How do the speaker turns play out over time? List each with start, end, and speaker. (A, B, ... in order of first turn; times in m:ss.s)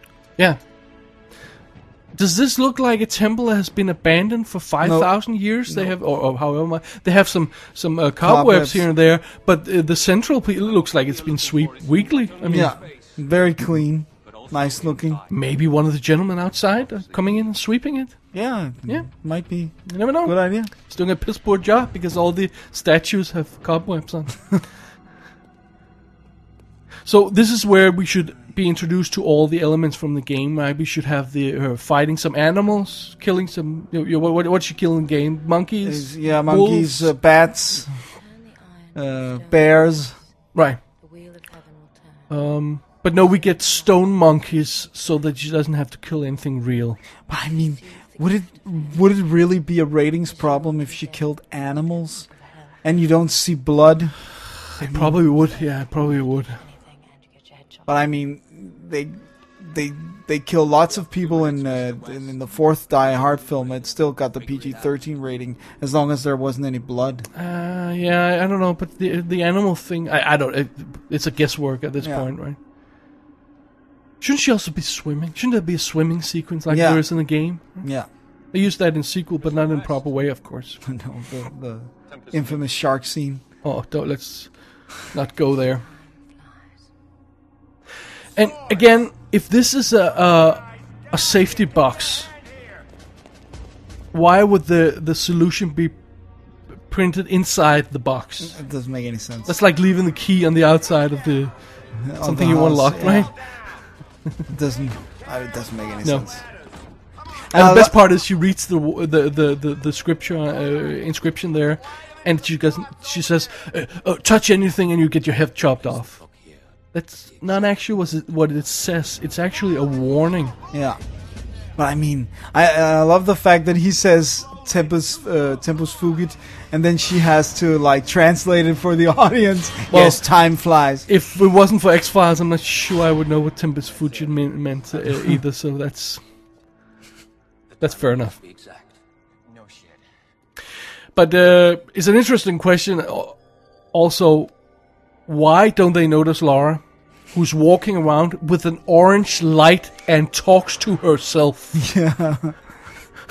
0:02.2-0:12.7 A
0:04.8-0:05.1 B
0:08.2-0:08.8 B
0:10.6-0:13.2 C
0:12.5-0:15.2 B
0:14.2-0:15.6 C
0:15.3-0:18.2 A
0:16.5-0:17.4 C
0:18.3-0:20.7 B
0:19.9-0:24.4 A
0:27.0-0:37.1 A
0:35.8-0:37.9 B
0:37.8-0:40.2 D
0:38.9-0:40.1 B
0:40.5-0:40.8 A
0:41.0-0:45.2 D
0:42.3-0:47.0 A
0:47.3-0:52.2 B
0:47.3-0:49.5 D
0:50.2-0:53.0 D
0:52.8-0:54.2 B
0:54.8-0:56.6 A
0:54.8-0:55.2 B
0:55.2-0:58.0 D
0:57.8-1:07.2 B
1:00.8-1:05.0 C
1:07.3-1:12.6 A
1:12.0-1:12.2 B
1:14.2-1:17.8 A
1:16.7-1:17.0 B
1:17.8-1:18.1 B
1:18.5-1:20.8 A
1:19.4-1:20.0 C
1:20.8-1:23.4 B
1:22.1-1:22.6 C
1:23.6-1:24.5 A
1:25.1-1:25.8 A
1:25.8-1:26.8 D
1:28.3-1:32.3 A
1:34.1-1:36.0 A
1:36.9-1:38.6 A
1:38.4-1:39.5 B
1:39.5-1:41.5 A
1:42.0-1:43.3 B
1:42.2-1:43.3 A
1:44.5-1:46.4 B
1:47.5-1:47.9 B
1:47.5-1:56.2 A
1:55.8-1:56.6 C
1:56.9-2:00.5 A
2:00.7-2:01.0 B
2:01.8-2:11.1 B
2:09.9-2:10.2 A
2:11.1-2:16.2 A
2:13.9-2:14.5 C
2:17.7-2:20.0 C
2:17.8-2:18.3 A
2:21.1-2:23.4 A
2:23.9-2:24.5 A
2:25.3-2:31.8 A
2:31.7-2:32.6 B